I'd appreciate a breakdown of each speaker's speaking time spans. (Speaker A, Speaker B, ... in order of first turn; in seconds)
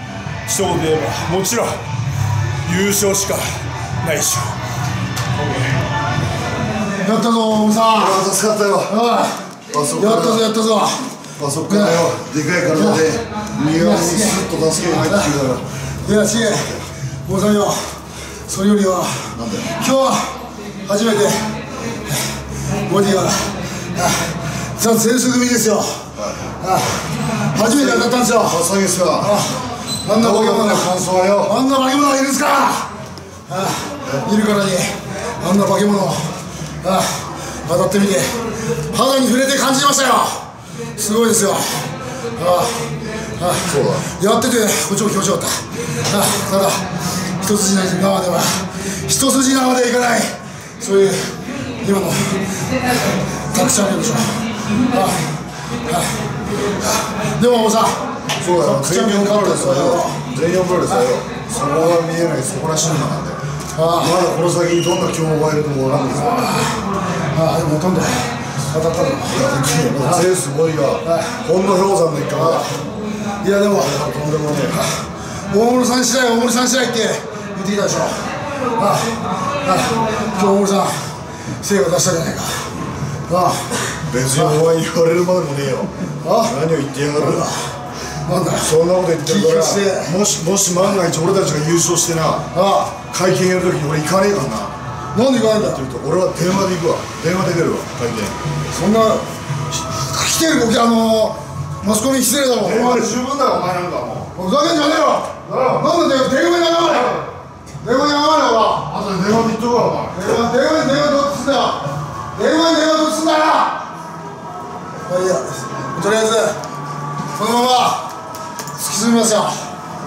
Speaker A: 0.5-1.7, 2.6-4.5
Speaker B: 7.0-8.2, 8.9-9.5, 10.0-11.2, 11.7-12.0, 12.7-13.1, 13.7-15.3, 16.0-21.5, 22.1-28.6, 29.2-32.9, 33.5-58.0, 58.6-60.2, 63.8-64.2, 66.0-66.8, 67.3-70.3, 71.0-71.4, 72.4-72.8, 73.4-82.7, 83.3-84.6, 86.2-86.6, 87.2-87.6, 88.2-90.2, 92.5-93.0, 95.1-95.8, 98.7-99.3, 99.9-103.2, 104.3-107.3, 107.8-108.9, 110.1-113.9, 115.1-116.6, 117.3-118.1, 118.8-119.7
Speaker C: 8.0-8.9, 9.7-10.4, 11.4-15.7, 16.4-16.8, 19.3-19.7, 26.2-26.4, 27.6-29.4, 30.1-31.5, 43.6-44.1, 58.4-63.4, 64.0-66.5, 69.3-72.7, 73.8-74.1, 84.1-87.5, 88.6-94.7, 95.6-98.4, 102.6-104.3, 108.9-110.2